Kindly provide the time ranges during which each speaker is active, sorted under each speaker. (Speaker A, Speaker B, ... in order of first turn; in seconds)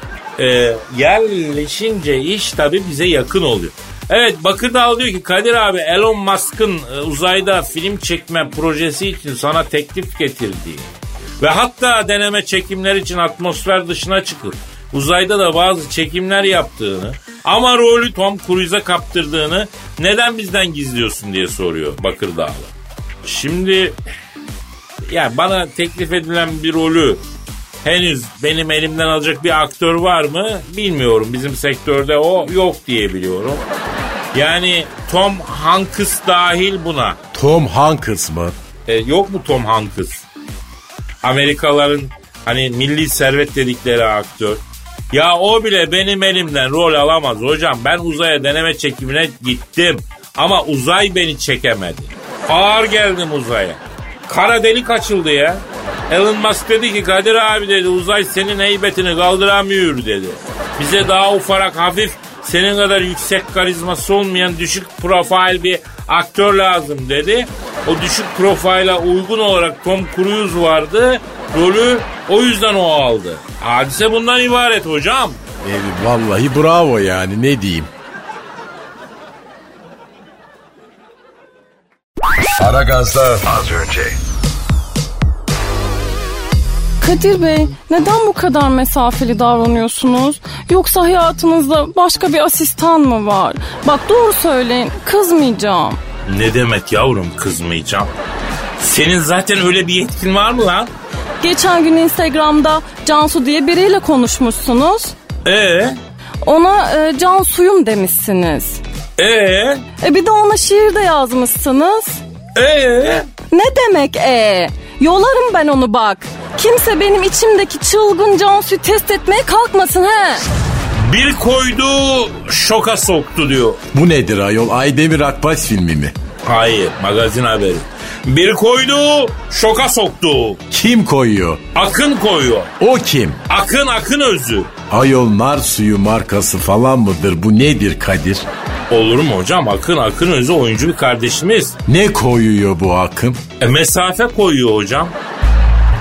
Speaker A: 0.4-22.7, 23.2-24.0, 25.1-27.2, 27.8-33.6, 34.3-37.2, 38.9-40.2, 41.2-75.4, 96.3-98.1, 98.8-100.9, 105.5-106.0, 109.2-109.8, 112.5-113.3, 121.0-123.8, 126.5-130.6, 131.8-132.7, 133.5-134.7, 138.9-141.8, 143.6-145.1
Speaker B: 37.3-38.6, 75.6-77.9, 82.8-83.7, 123.9-126.2, 130.7-131.6, 132.8-133.4, 134.9-138.5, 141.9-143.4
Speaker C: 87.0-96.0, 101.4-105.2, 106.4-108.8, 110.0-112.2, 113.5-120.5